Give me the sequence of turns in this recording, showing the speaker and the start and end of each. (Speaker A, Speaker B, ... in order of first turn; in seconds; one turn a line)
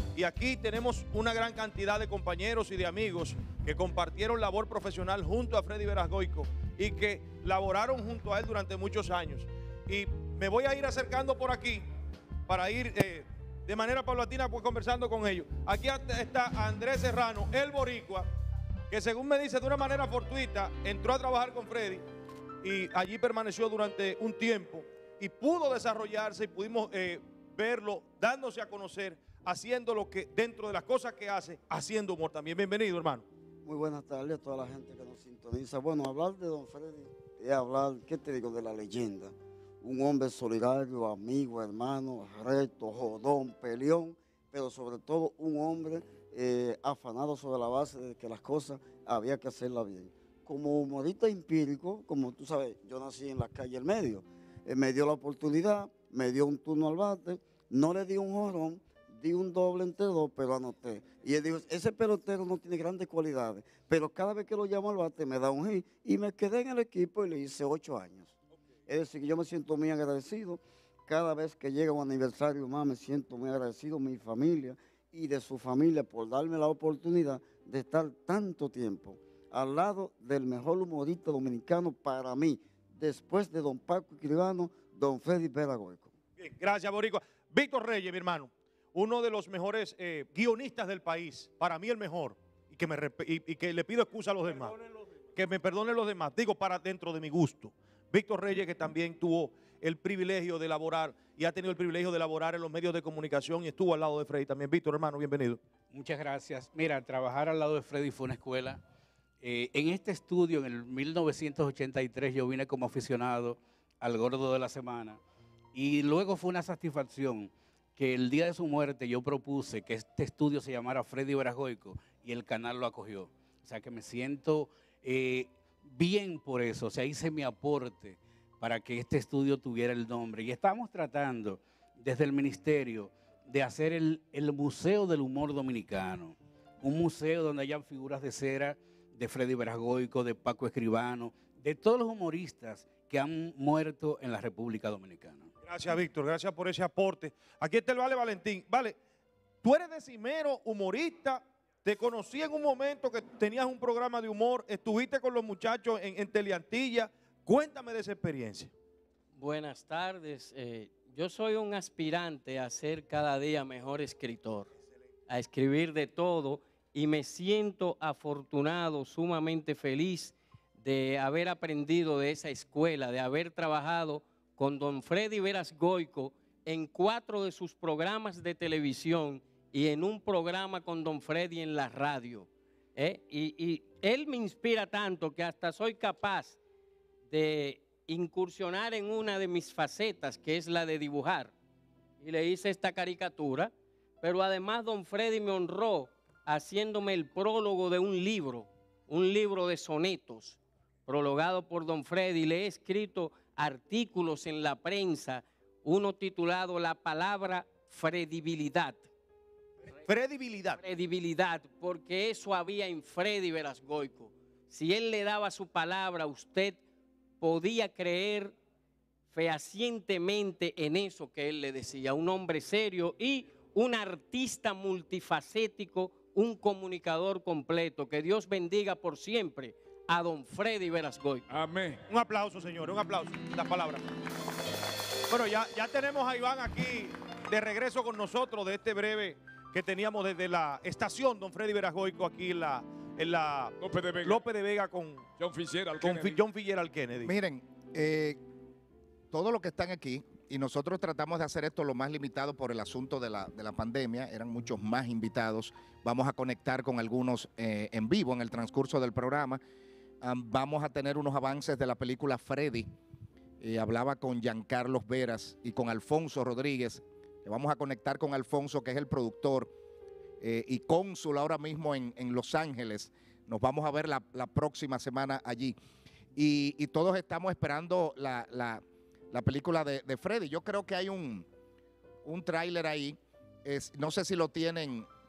Speaker A: 0.1-11.9
Speaker A: 12.5-18.3
Speaker A: 18.9-22.0
Speaker A: 22.6-33.2
Speaker B: 33.6-68.3
Speaker B: 68.9-86.2
Speaker A: 86.4-94.8
Speaker A: 95.4-105.6
Speaker C: 105.9-108.8
Speaker C: 109.4-115.2
Speaker C: 115.7-145.5
Speaker A: 145.6-149.0
Speaker A: 149.6-158.7
Speaker D: 159.4-164.7
Speaker D: 165.3-186.6
Speaker D: 187.3-191.5
Speaker D: 192.2-209.1
Speaker A: 210.1-210.8
Speaker D: 210.8-216.8
Speaker D: 217.4-218.6
Speaker D: 219.3-231.4
Speaker E: 231.5-232.0
Speaker A: 232.1-234.0
Speaker A: 235.3-245.3
Speaker E: 243.8-244.4
Speaker E: 245.4-246.4
Speaker A: 246.0-247.3
Speaker F: 247.2-248.4
Speaker F: 249.3-259.6
Speaker F: 260.2-262.9
Speaker F: 263.6-269.7
Speaker F: 270.4-275.8
Speaker F: 276.4-281.5
Speaker F: 282.2-285.1